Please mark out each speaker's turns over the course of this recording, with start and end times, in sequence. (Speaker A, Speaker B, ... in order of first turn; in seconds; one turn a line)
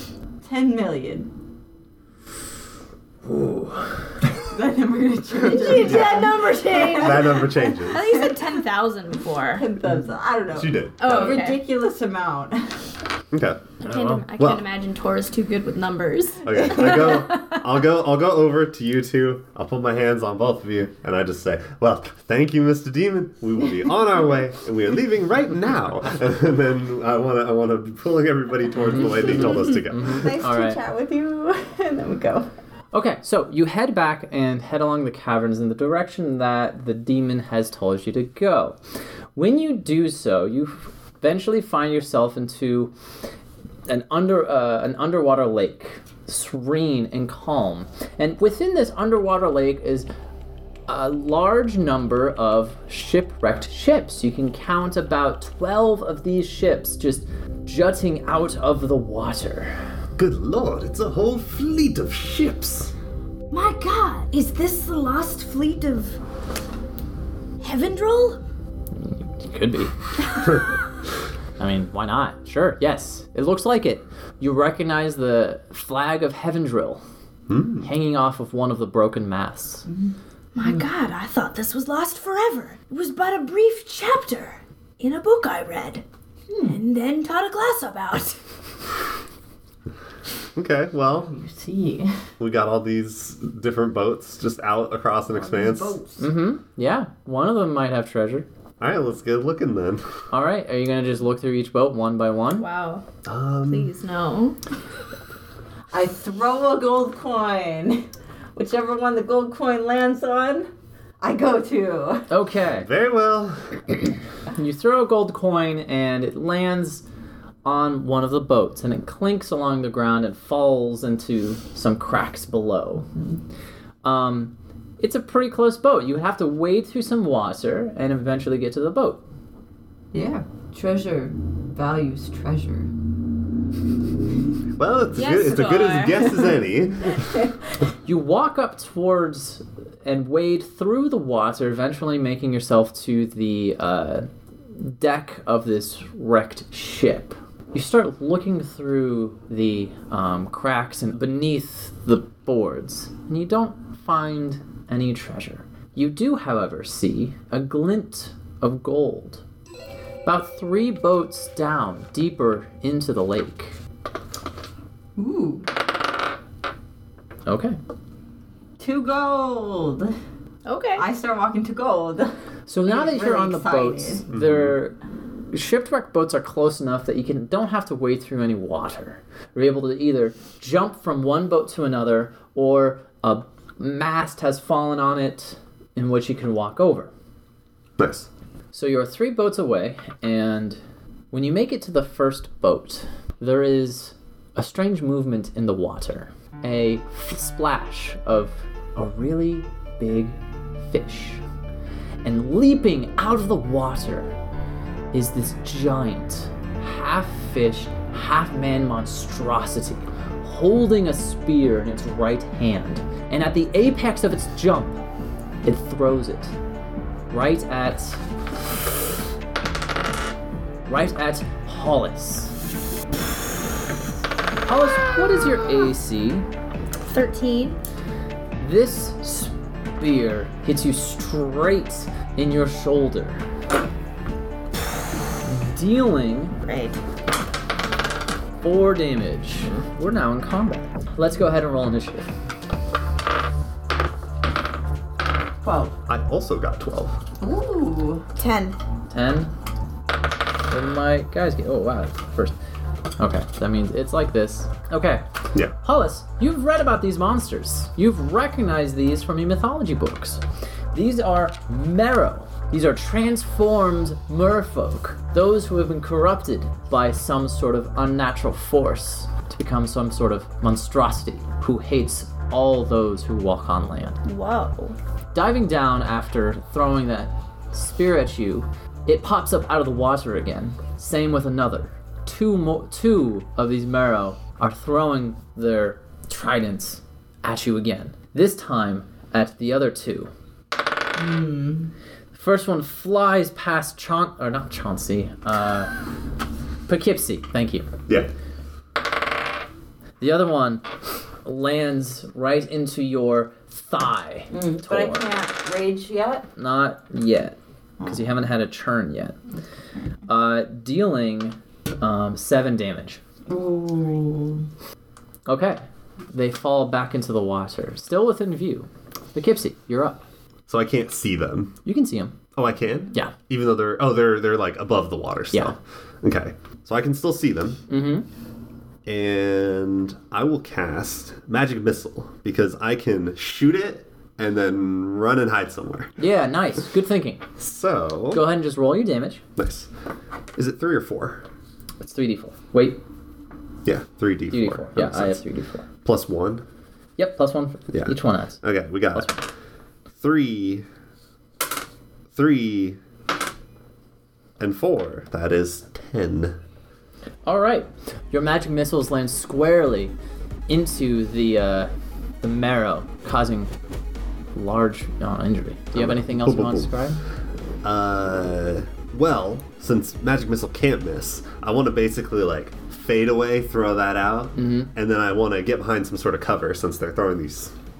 Speaker A: 0.4-1.3
Speaker B: 3.2-4.1
Speaker A: 4.3-8.5
Speaker C: 5.4-9.7
Speaker D: 5.7-8.1
Speaker A: 9.5-12.9
Speaker D: 10.5-11.4
Speaker C: 11.0-11.6
Speaker D: 13.3-13.7
Speaker C: 13.8-17.6
Speaker B: 13.8-14.3
Speaker D: 14.4-14.7
Speaker D: 16.4-30.3
Speaker B: 28.9-30.8
Speaker A: 29.1-32.5
Speaker B: 32.9-38.8
Speaker B: 39.3-42.9
Speaker B: 43.9-50.1
Speaker B: 50.9-59.8
Speaker D: 60.1-62.9
Speaker C: 63.5-66.2
Speaker C: 67.6-68.4
Speaker B: 69.0-69.9
Speaker B: 71.6-77.0
Speaker D: 77.5-77.9
Speaker B: 77.8-79.8
Speaker A: 79.9-80.8
Speaker C: 80.5-86.0
Speaker A: 86.5-86.8
Speaker C: 86.6-88.4
Speaker D: 90.5-91.3
Speaker A: 91.2-92.2
Speaker D: 92.4-96.0
Speaker A: 95.3-96.3
Speaker B: 96.2-98.5
Speaker D: 98.8-100.2
Speaker B: 100.3-102.7
Speaker C: 102.6-103.0
Speaker D: 103.2-103.9
Speaker C: 103.7-104.6
Speaker A: 105.9-108.0
Speaker A: 108.5-110.7
Speaker A: 111.2-112.3
Speaker B: 112.3-112.9
Speaker D: 112.7-113.8
Speaker B: 114.5-117.0
Speaker B: 117.6-123.1
Speaker B: 124.0-129.2
Speaker A: 130.1-132.9
Speaker D: 134.8-137.4
Speaker C: 135.2-136.5
Speaker B: 138.0-159.4
Speaker B: 160.2-163.8
Speaker A: 165.2-165.7
Speaker B: 167.4-167.8
Speaker A: 168.8-170.1
Speaker C: 170.7-171.0
Speaker A: 170.9-172.3
Speaker B: 172.7-174.9
Speaker A: 172.8-174.2
Speaker D: 174.3-174.7
Speaker B: 175.5-187.1
Speaker D: 188.0-188.3
Speaker B: 188.7-190.8
Speaker B: 191.3-201.4
Speaker B: 202.2-204.3
Speaker B: 205.1-215.0
Speaker B: 215.6-216.6
Speaker B: 217.3-218.2
Speaker B: 220.9-222.6
Speaker B: 224.7-226.5
Speaker C: 227.1-227.8
Speaker B: 228.6-233.4
Speaker B: 235.4-236.6
Speaker C: 236.6-237.0
Speaker B: 238.6-242.3
Speaker A: 245.6-245.9
Speaker D: 246.1-247.2
Speaker A: 247.4-248.3
Speaker C: 248.3-248.8
Speaker B: 249.1-249.5
Speaker B: 250.7-252.5
Speaker B: 253.2-260.4
Speaker B: 260.9-274.2
Speaker C: 274.2-274.9
Speaker B: 275.3-290.3
Speaker A: 291.1-291.9
Speaker B: 292.3-295.9
Speaker B: 296.9-297.9
Speaker B: 300.2-300.8
Speaker B: 301.4-305.2
Speaker A: 304.5-306.5
Speaker B: 306.6-309.4
Speaker B: 310.3-313.2
Speaker A: 313.5-314.6
Speaker B: 315.4-320.2
Speaker D: 320.7-321.8
Speaker B: 321.8-322.4
Speaker D: 322.5-327.8
Speaker B: 327.9-328.2
Speaker D: 329.0-336.1
Speaker B: 336.2-337.4
Speaker D: 337.6-338.4
Speaker B: 338.3-339.4
Speaker D: 339.6-339.9
Speaker D: 340.6-341.4
Speaker B: 342.0-343.0
Speaker D: 343.8-345.4
Speaker B: 344.5-345.8
Speaker D: 346.0-346.6
Speaker B: 347.2-348.6
Speaker D: 347.9-349.4
Speaker B: 349.1-349.4
Speaker D: 350.1-350.8
Speaker D: 352.3-353.0
Speaker D: 354.6-356.6
Speaker B: 357.4-360.1
Speaker B: 360.7-361.9
Speaker B: 362.4-363.7
Speaker B: 364.5-367.2
Speaker D: 365.9-366.9
Speaker D: 367.8-377.7
Speaker B: 374.6-374.9